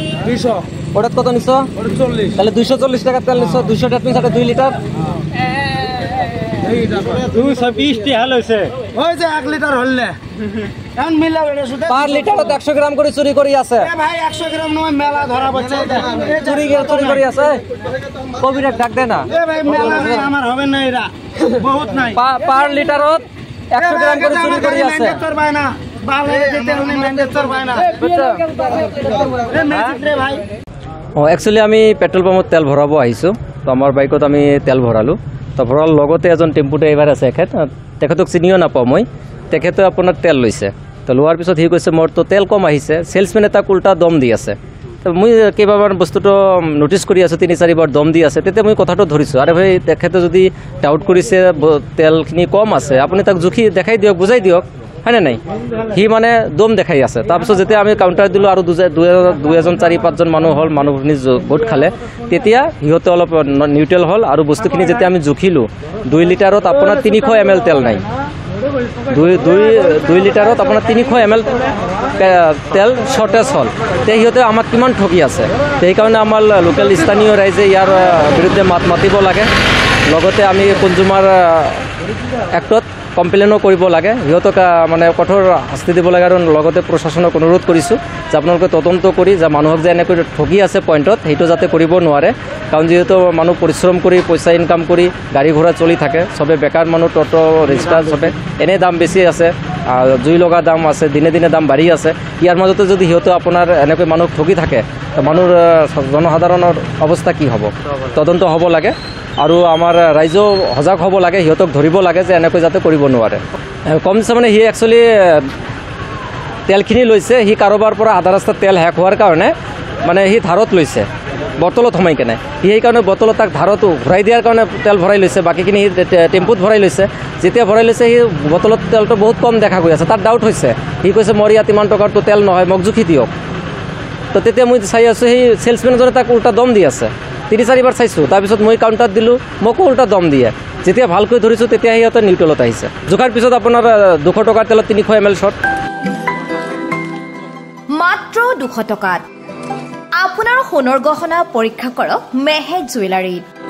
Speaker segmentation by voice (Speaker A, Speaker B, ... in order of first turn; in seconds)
Speaker A: 0.9-1.7, 2.3-4.8, 7.1-8.7, 11.9-13.9, 16.2-17.6, 18.4-20.3, 22.1-25.2, 28.0-28.8, 29.7-30.0, 31.1-68.0, 69.1-71.6, 72.2-79.5, 80.1-81.9, 82.5-115.5, 116.7-133.3, 134.3-145.6
Speaker B: 8.9-10.2, 10.9-12.5, 13.8-17.2, 19.3-22.2, 23.8-27.9, 29.4-30.4
Speaker C: 147.9-149.2, 150.2-153.4